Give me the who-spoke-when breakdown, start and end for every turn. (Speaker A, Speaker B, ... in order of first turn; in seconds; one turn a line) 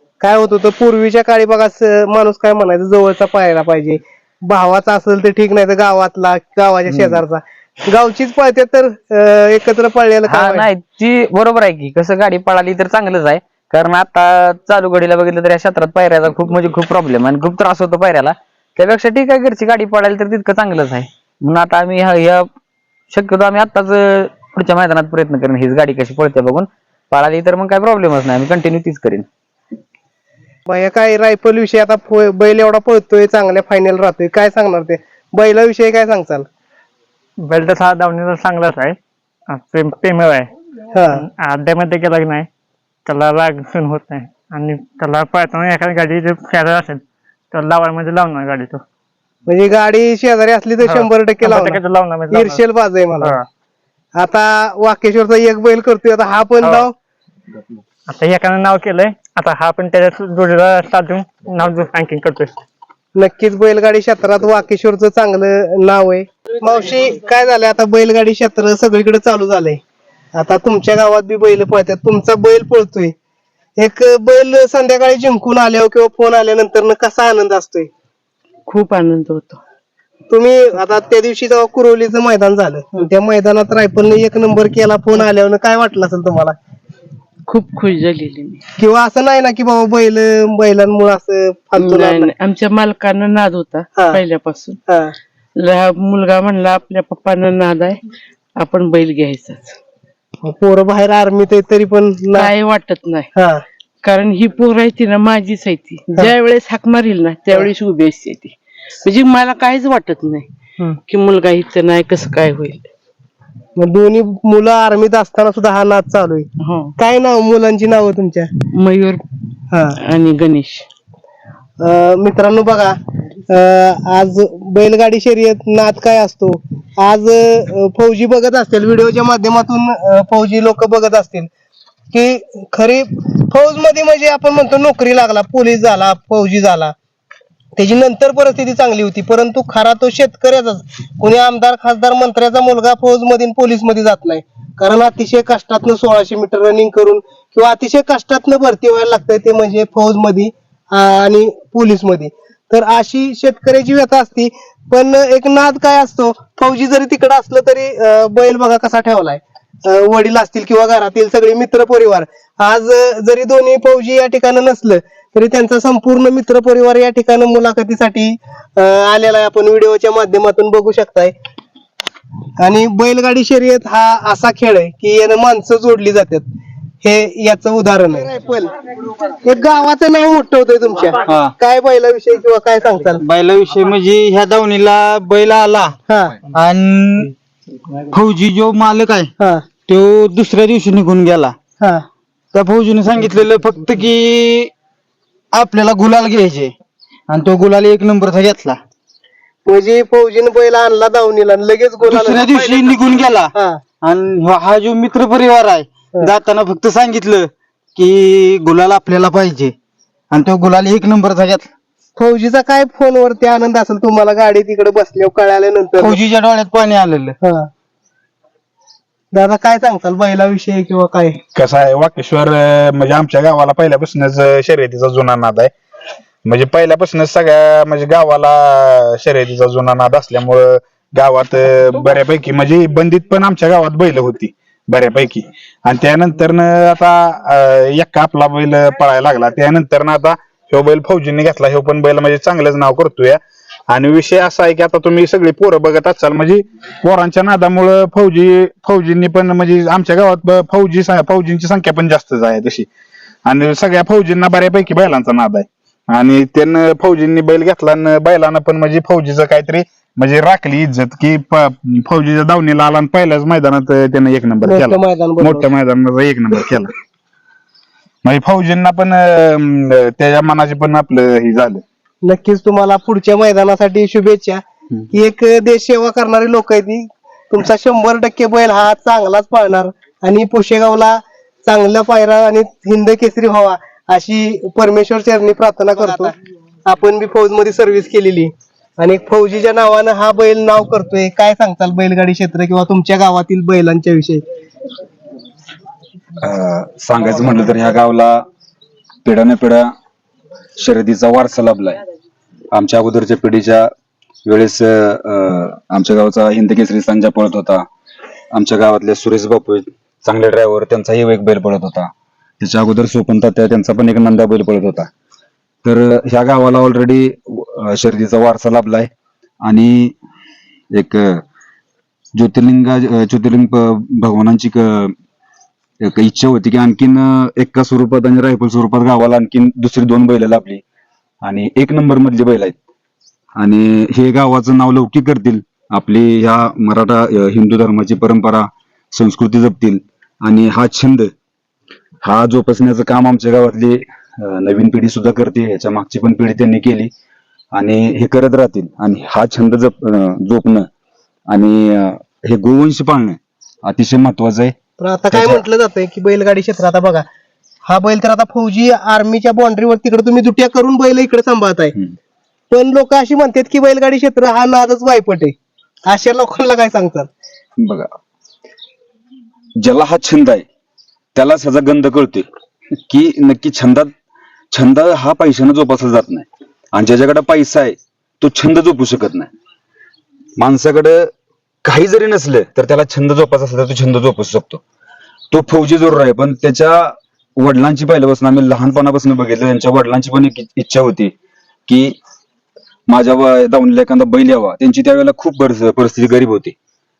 Speaker A: 0.2-10.7
Speaker B: 6.9-7.2
Speaker B: 10.3-22.5
Speaker B: 23.1-29.2
Speaker A: 30.7-36.5
Speaker C: 37.4-39.0
Speaker C: 39.5-40.5
Speaker A: 41.0-41.2
Speaker C: 41.1-42.5
Speaker C: 43.1-48.8
Speaker A: 49.5-53.4
Speaker C: 50.8-52.6
Speaker C: 53.2-53.4
Speaker A: 54.2-56.9
Speaker C: 56.6-56.9
Speaker C: 58.1-62.5
Speaker A: 63.2-69.8
Speaker A: 70.3-73.1
Speaker A: 73.8-77.9
Speaker D: 78.7-79.6
Speaker A: 80.3-86.6
Speaker D: 87.5-88.6
Speaker A: 88.8-92.3
Speaker D: 91.8-94.8
Speaker A: 94.0-94.2
Speaker A: 94.9-95.1
Speaker D: 95.6-98.0
Speaker D: 98.6-99.8
Speaker A: 100.4-102.5
Speaker D: 102.3-103.3
Speaker A: 103.3-103.6
Speaker D: 104.0-110.5
Speaker D: 111.1-112.9
Speaker A: 113.8-116.5
Speaker D: 116.6-116.9
Speaker A: 117.0-118.5
Speaker D: 118.7-119.2
Speaker D: 120.0-120.9
Speaker A: 121.8-122.9
Speaker A: 123.5-131.5
Speaker A: 132.1-136.9
Speaker A: 137.8-171.3
Speaker A: 172.6-176.4
Speaker A: 177.0-178.7
Speaker A: 179.3-183.2
Speaker E: 181.3-181.5
Speaker E: 183.2-186.0
Speaker A: 186.1-186.4
Speaker E: 186.5-187.3
Speaker E: 188.1-189.3
Speaker A: 189.4-189.6
Speaker E: 189.9-191.6
Speaker E: 192.5-194.7
Speaker E: 195.5-196.7
Speaker E: 197.3-198.8
Speaker A: 199.7-202.9
Speaker E: 202.0-209.7
Speaker A: 203.5-203.8
Speaker E: 210.3-211.7
Speaker A: 212.2-216.2
Speaker E: 216.0-217.3
Speaker A: 217.4-217.7
Speaker A: 219.3-221.4
Speaker F: 221.6-225.7
Speaker F: 226.4-252.9
Speaker F: 253.5-266.9
Speaker A: 264.6-265.7
Speaker F: 268.2-271.8
Speaker A: 272.2-274.6
Speaker A: 275.1-286.3
Speaker A: 286.9-294.4
Speaker G: 296.4-298.4
Speaker G: 299.2-299.9
Speaker G: 300.8-302.0
Speaker G: 302.7-303.9
Speaker G: 304.5-307.9
Speaker G: 308.5-315.1
Speaker G: 315.9-319.1
Speaker G: 319.6-320.1
Speaker G: 320.9-321.4
Speaker G: 322.4-325.1
Speaker G: 326.0-330.8
Speaker G: 331.4-332.7
Speaker G: 333.6-341.3
Speaker G: 342.2-347.1
Speaker G: 347.8-350.9
Speaker G: 351.5-354.7
Speaker A: 355.0-357.2
Speaker G: 355.3-355.6
Speaker A: 357.9-361.9
Speaker A: 362.7-365.5
Speaker A: 366.1-367.3
Speaker G: 367.8-368.1
Speaker G: 369.8-370.6
Speaker G: 371.4-372.5
Speaker G: 373.1-374.1
Speaker G: 374.7-379.5
Speaker G: 380.6-381.3
Speaker G: 381.9-384.8
Speaker G: 385.5-391.3
Speaker G: 391.9-392.2
Speaker G: 393.1-396.7